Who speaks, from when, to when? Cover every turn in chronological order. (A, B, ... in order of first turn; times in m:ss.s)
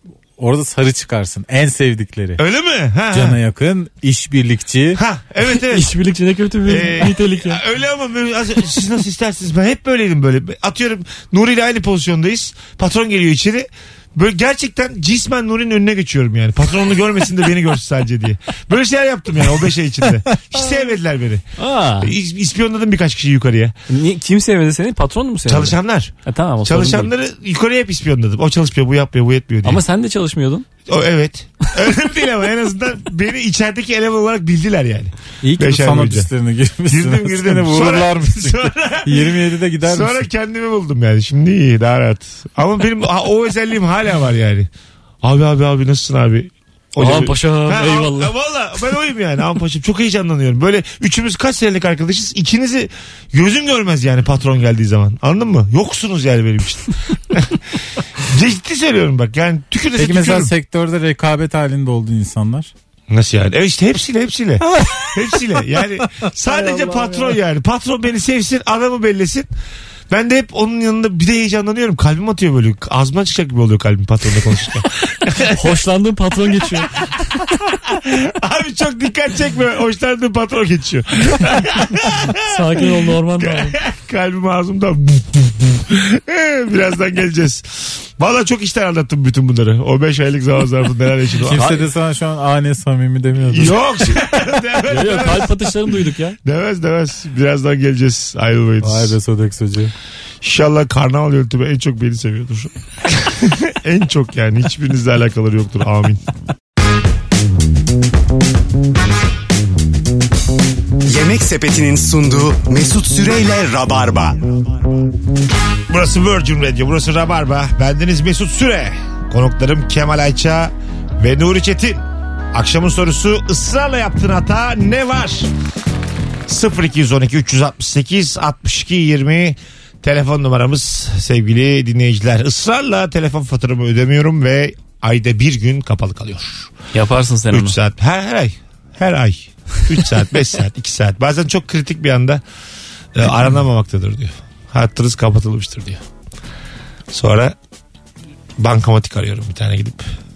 0:00.4-0:02.4 A
0:02.4-0:03.4 B
0:03.1-0:05.0 A
0:05.0-0:05.9 B
0:05.5-0:07.6 C
0:06.6-0:21.5 B
0:21.6-0:22.1 C
0:22.0-0:23.7 B
0:23.9-0:27.1 C
0:25.5-0:29.8 B
0:29.6-0:30.7 C
0:30.9-0:36.3 B
0:35.4-0:40.3 A
0:36.9-0:44.7 B
0:45.2-0:57.6 B
0:47.0-0:48.3 C
0:58.2-1:00.5 B
1:00.0-1:02.7 A
1:03.1-1:09.5 B
1:06.5-1:07.0 A
1:10.1-1:15.6 B
1:15.5-1:16.9 C
1:17.8-1:22.8 B
1:22.3-1:23.7 C
1:23.4-1:31.8 B
1:31.4-1:34.2 A
1:33.5-1:35.8 B
1:34.9-1:36.4 C
1:36.4-1:39.2 B
1:38.8-1:39.9 A
1:40.4-1:46.2 B
1:51.0-1:54.5 D
1:55.9-2:02.0 B
2:02.5-2:05.5 B
2:06.5-2:16.7 B
2:16.9-2:17.8 C
2:17.5-2:22.4 B
2:23.1-2:26.0 B
2:27.1-2:27.5 B
2:28.6-2:30.0 B